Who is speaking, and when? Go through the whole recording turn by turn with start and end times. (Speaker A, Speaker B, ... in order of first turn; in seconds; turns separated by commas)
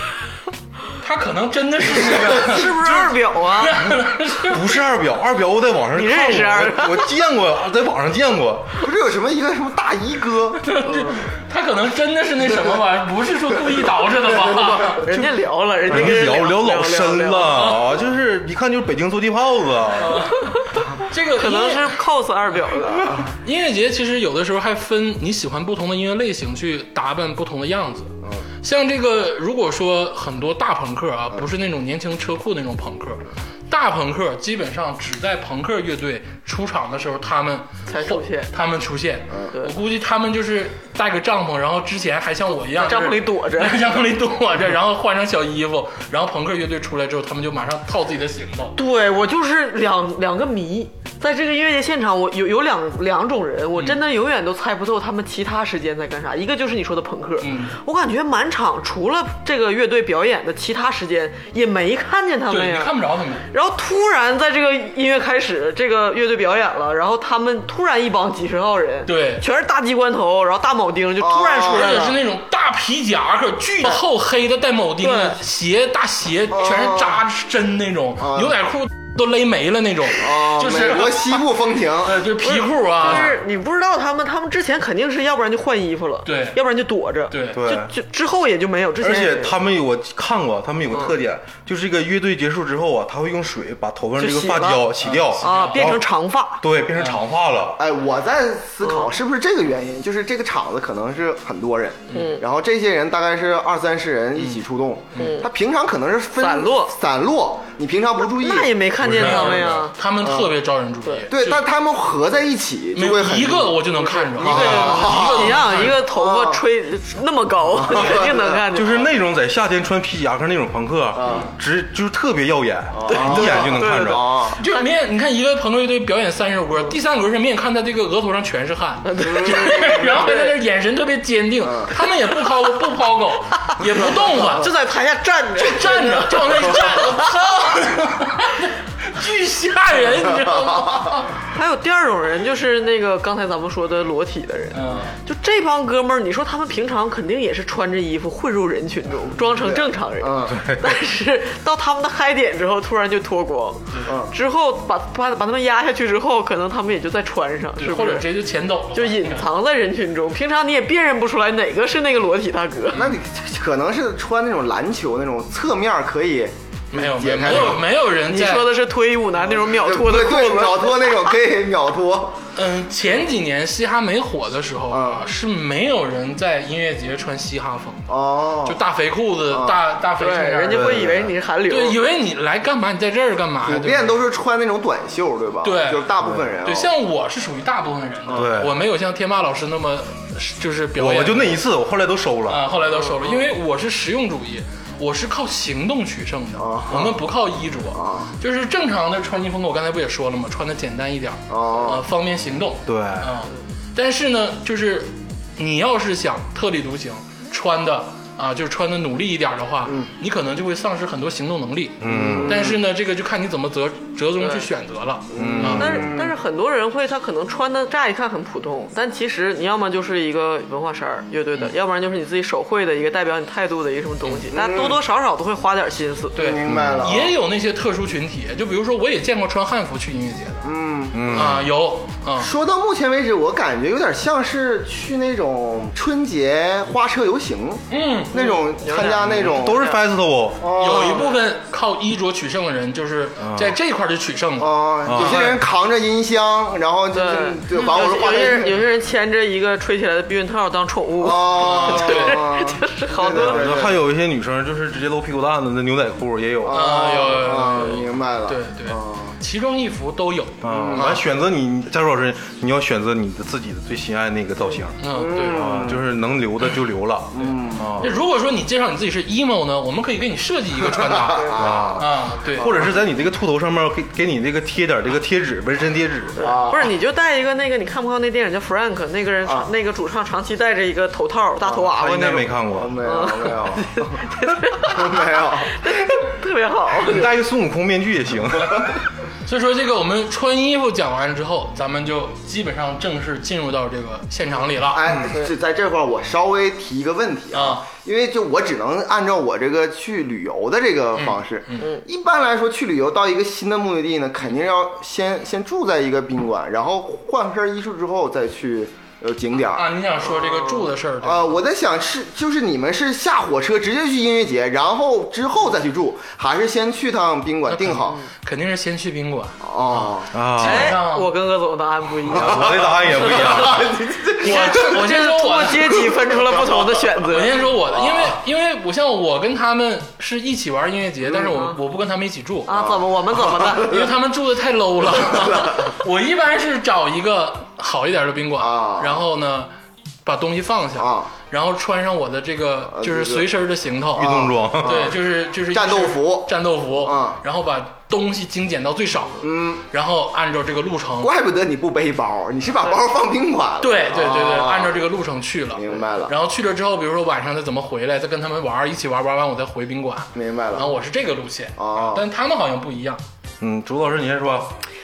Speaker A: 1.0-4.8, Speaker B: 2.2-3.8, Speaker C: 4.4-8.8, Speaker B: 5.9-7.1, Speaker D: 8.8-10.8, Speaker A: 10.7-15.1, Speaker D: 14.4-14.9, Speaker B: 15.0-17.7, Speaker C: 15.9-20.3, Speaker A: 17.5-17.8, Speaker A: 19.9-21.9, Speaker B: 21.4-23.2, Speaker A: 23.3-48.8, Speaker B: 37.9-38.5, Speaker B: 42.7-43.8, Speaker B: 48.8-62.9, Speaker A: 57.4-57.8, Speaker A: 62.5-63.5, Speaker B: 63.5-72.2, Speaker A: 69.1-69.4, Speaker D: 71.2-72.2, Speaker A: 71.7-81.4, Speaker B: 75.0-75.4, Speaker D: 76.5-77.2, Speaker D: 78.2-78.5, Speaker D: 80.2-82.2, Speaker A: 82.0-83.3, Speaker B: 82.4-89.6, Speaker A: 86.2-86.6, Speaker A: 87.3-87.6, Speaker C: 87.6-87.9, Speaker C: 89.0-96.1, Speaker B: 94.2-94.9, Speaker A: 95.0-96.0, Speaker B: 95.4-96.6, Speaker C: 96.6-97.8, Speaker A: 97.0-97.2, Speaker D: 97.8-108.8, Speaker B: 98.8-99.1, Speaker B: 102.1-102.4, Speaker B: 105.2-105.5, Speaker B: 106.4-106.9, Speaker B: 108.2-109.9, Speaker C: 109.0-109.9, Speaker A: 109.1-111.6, Speaker D: 110.2-110.5, Speaker D: 111.3-116.6, Speaker A: 113.0-116.0, Speaker B: 114.0-119.1, Speaker C: 114.5-114.9, Speaker D: 117.7-118.8, Speaker C: 118.7-124.2, Speaker D: 121.2-121.5, Speaker D: 122.9-124.6, Speaker B: 123.1-124.8, Speaker A: 124.6-134.7, Speaker B: 129.1-130.5, Speaker D: 129.3-129.7, Speaker D: 131.6-131.9, Speaker B: 133.9-137.8, Speaker A: 135.6-141.3, Speaker D: 140.4-140.9, Speaker B: 141.5-158.3, Speaker A: 144.7-145.2, Speaker D: 149.5-150.6, Speaker C: 150.5-151.0, Speaker D: 154.1-154.3, Speaker A: 157.8-159.5, Speaker B: 158.9-163.1, Speaker D: 162.9-167.8, Speaker A: 166.9-168.7, Speaker B: 168.2-171.3, Speaker D: 169.6-172.4, Speaker A: 172.6-178.1, Speaker D: 174.9-175.3, Speaker D: 178.1-178.8, Speaker A: 178.7-181.1, Speaker D: 179.5-179.8, Speaker B: 180.2-182.0, Speaker C: 180.7-181.3, Speaker A: 181.7-184.1, Speaker D: 183.6-186.9, Speaker A: 185.6-191.6, Speaker C: 188.3-188.8, Speaker C: 191.0-192.6, Speaker A: 192.5-215.9, Speaker B: 193.1-193.5, Speaker D: 196.6-197.2, Speaker D: 197.9-198.3, Speaker D: 201.5-202.1, Speaker C: 202.9-203.4, Speaker C: 212.0-212.8, Speaker D: 212.1-212.8, Speaker B: 214.4-214.7, Speaker D: 215.3-216.3, Speaker C: 215.4-216.1, Speaker B: 215.8-226.4, Speaker D: 224.5-225.0, Speaker A: 226.3-230.7, Speaker D: 226.4-227.3, Speaker C: 226.7-227.2, Speaker D: 230.6-231.5, Speaker C: 231.1-231.7, Speaker A: 231.3-232.5, Speaker D: 232.4-239.8, Speaker A: 237.9-239.5, Speaker B: 238.3-240.0, Speaker C: 239.2-241.0, Speaker D: 240.6-241.4, Speaker A: 240.8-245.6, Speaker C: 243.4-243.8, Speaker D: 244.6-248.8, Speaker C: 245.1-245.5, Speaker B: 247.1-253.7, Speaker D: 251.2-254.0, Speaker A: 251.6-252.5, Speaker C: 253.3-257.0, Speaker D: 256.6-259.4, Speaker A: 256.7-261.1, Speaker C: 260.6-268.1, Speaker D: 260.7-261.2, Speaker A: 265.0-265.9, Speaker D: 265.1-266.0, Speaker D: 267.3-268.0, Speaker A: 268.0-272.8, Speaker D: 271.3-272.1, Speaker C: 271.6-276.4, Speaker D: 272.6-272.9, Speaker B: 276.4-287.3, Speaker D: 276.4-276.9, Speaker C: 281.9-283.0, Speaker D: 282.7-284.3, Speaker D: 284.8-286.2, Speaker C: 287.1-289.0, Speaker A: 289.5-295.0, Speaker D: 294.9-309.9, Speaker A: 297.5-297.9, Speaker A: 301.1-301.9, Speaker A: 309.7-311.6, Speaker B: 310.4-310.9, Speaker D: 311.2-318.2, Speaker A: 317.7-321.3, Speaker D: 319.6-320.4, Speaker C: 320.3-321.0, Speaker B: 320.6-323.8, Speaker C: 322.3-323.9, Speaker D: 322.3-324.9, Speaker A: 323.2-323.9, Speaker A: 324.4-326.1, Speaker B: 324.4-327.7, Speaker D: 326.5-326.9, Speaker A: 327.3-332.7, Speaker B: 331.5-331.8, Speaker B: 332.7-334.0, Speaker D: 332.7-334.1, Speaker A: 333.8-339.7, Speaker D: 335.3-335.9, Speaker D: 338.6-339.2, Speaker A: 340.2-351.3, Speaker D: 341.0-341.3, Speaker D: 342.9-343.5, Speaker D: 344.2-345.2, Speaker C: 344.2-345.1, Speaker D: 345.7-347.4, Speaker D: 349.4-349.9, Speaker D: 351.2-355.0, Speaker A: 353.8-363.2, Speaker D: 355.8-356.3, Speaker D: 360.3-361.0, Speaker D: 361.8-362.2, Speaker C: 363.6-364.8